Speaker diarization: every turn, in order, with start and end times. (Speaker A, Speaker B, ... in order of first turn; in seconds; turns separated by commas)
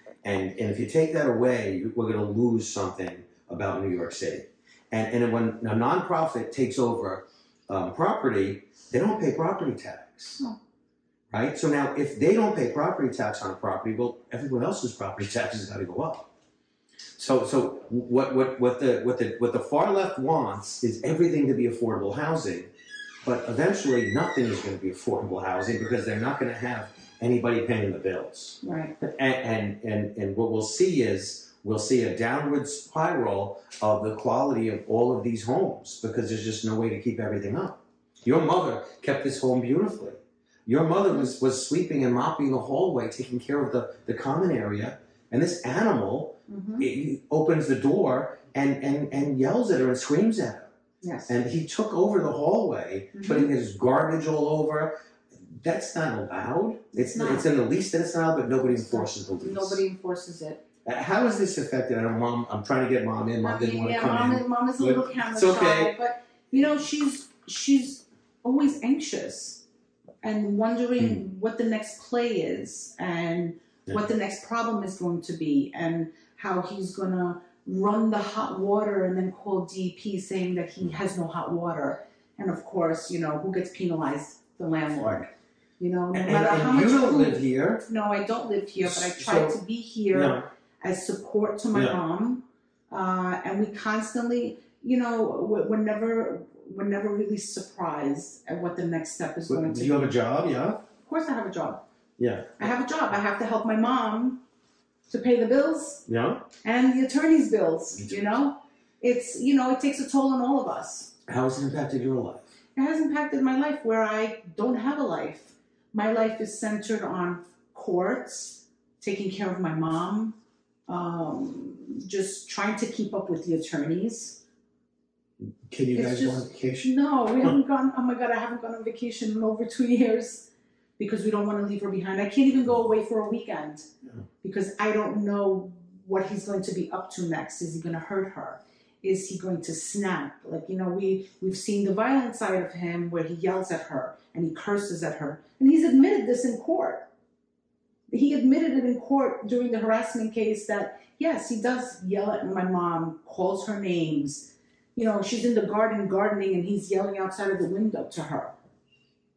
Speaker A: 0.2-10.4, Speaker A: 11.3-16.3, Speaker A: 17.2-22.7, Speaker A: 23.2-50.7, Speaker B: 28.6-28.9, Speaker B: 46.5-46.9, Speaker B: 51.0-51.3, Speaker A: 51.3-54.9, Speaker B: 53.1-53.5, Speaker A: 55.5-59.8, Speaker B: 56.9-57.5, Speaker B: 58.6-60.6, Speaker A: 60.9-65.9, Speaker B: 63.4-69.6, Speaker B: 70.2-100.1, Speaker A: 86.1-87.8, Speaker A: 88.8-89.6, Speaker A: 90.1-90.5, Speaker A: 99.5-100.8, Speaker B: 101.0-101.8, Speaker A: 102.2-102.7, Speaker B: 102.6-104.4, Speaker B: 105.1-106.0, Speaker A: 106.1-106.5, Speaker B: 106.6-111.1, Speaker A: 111.3-112.5, Speaker B: 112.8-120.4, Speaker B: 120.9-124.4, Speaker A: 125.7-126.9, Speaker B: 125.9-133.9, Speaker B: 134.4-147.1, Speaker B: 148.1-158.5